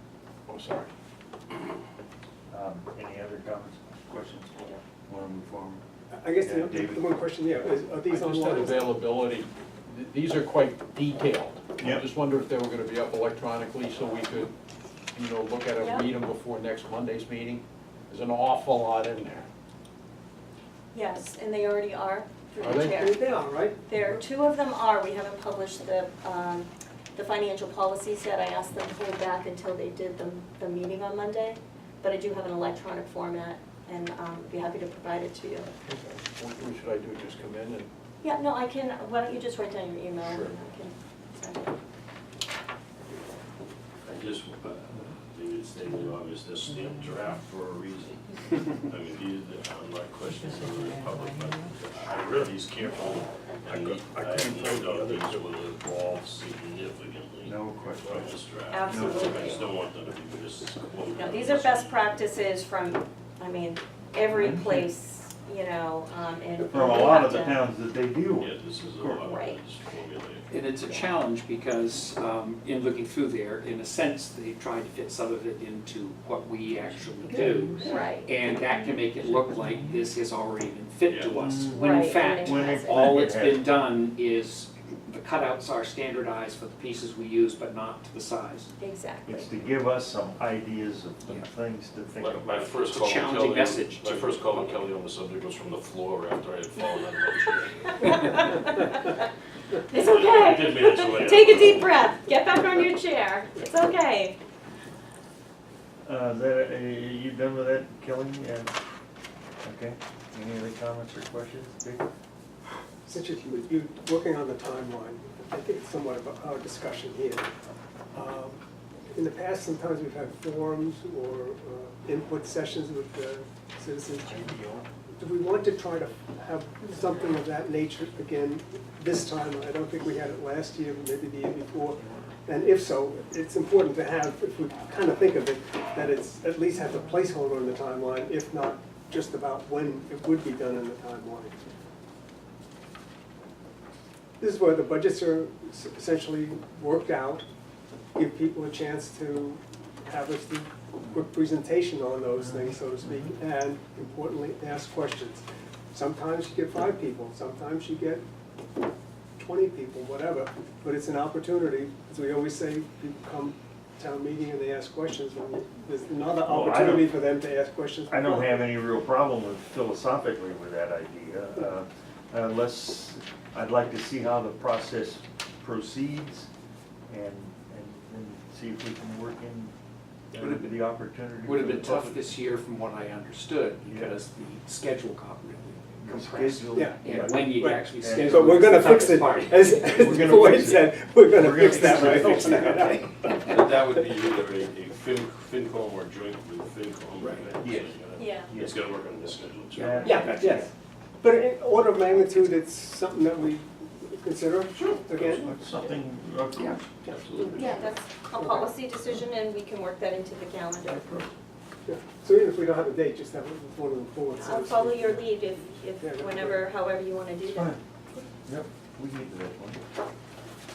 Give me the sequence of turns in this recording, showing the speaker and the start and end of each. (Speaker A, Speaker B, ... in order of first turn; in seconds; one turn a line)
Speaker A: 0.5-0.9
Speaker B: 2.5-5.8
Speaker C: 6.1-8.8
Speaker B: 6.4-7.0
Speaker A: 8.1-14.5
Speaker B: 11.8-12.1
Speaker A: 15.1-19.5
Speaker D: 15.8-16.1
Speaker D: 20.9-23.2
Speaker A: 22.6-23.0
Speaker C: 22.8-23.8
Speaker D: 23.9-35.7
Speaker A: 35.7-37.9
Speaker D: 38.2-41.8
Speaker A: 40.2-40.6
Speaker E: 44.0-62.2
Speaker A: 53.7-55.5
Speaker B: 57.4-58.3
Speaker D: 58.7-59.7
Speaker B: 58.9-59.3
Speaker D: 61.1-67.6
Speaker B: 64.3-64.9
Speaker B: 66.7-69.2
Speaker E: 68.4-70.6
Speaker D: 69.2-69.6
Speaker F: 70.5-88.7
Speaker D: 70.8-71.2
Speaker B: 77.3-77.8
Speaker D: 77.8-79.0
Speaker B: 79.5-80.0
Speaker E: 81.1-81.3
Speaker B: 81.3-83.7
Speaker D: 81.8-83.0
Speaker D: 88.8-89.5
Speaker B: 89.2-92.7
Speaker E: 92.2-98.1
Speaker F: 92.9-94.4
Speaker D: 97.9-99.3
Speaker D: 99.9-104.4
Speaker E: 99.9-102.1
Speaker B: 106.0-108.8
Speaker B: 109.6-112.1
Speaker C: 113.0-117.5
Speaker C: 118.1-118.6
Speaker C: 119.1-124.5
Speaker A: 124.2-124.9
Speaker C: 125.2-141.6
Speaker C: 144.4-147.4
Speaker C: 148.2-158.2
Speaker B: 152.4-153.4
Speaker C: 159.4-168.6
Speaker B: 166.4-167.2
Speaker B: 168.1-176.5
Speaker B: 177.1-179.7
Speaker B: 180.3-182.3
Speaker F: 180.3-180.8
Speaker F: 181.4-190.6
Speaker B: 183.8-184.2
Speaker B: 186.0-189.0
Speaker C: 186.8-193.4
Speaker B: 189.8-193.1
Speaker F: 191.6-193.3
Speaker E: 193.5-200.0
Speaker B: 197.6-197.9
Speaker D: 198.2-198.5
Speaker B: 198.5-198.8
Speaker B: 199.7-200.7
Speaker F: 199.8-200.6
Speaker C: 200.0-200.7
Speaker C: 201.2-205.5
Speaker B: 205.2-207.7
Speaker E: 207.1-207.9
Speaker D: 207.4-211.3
Speaker C: 208.3-208.8
Speaker B: 210.8-211.3
Speaker C: 211.9-216.7
Speaker D: 214.3-218.3
Speaker B: 217.4-217.8
Speaker B: 218.4-219.8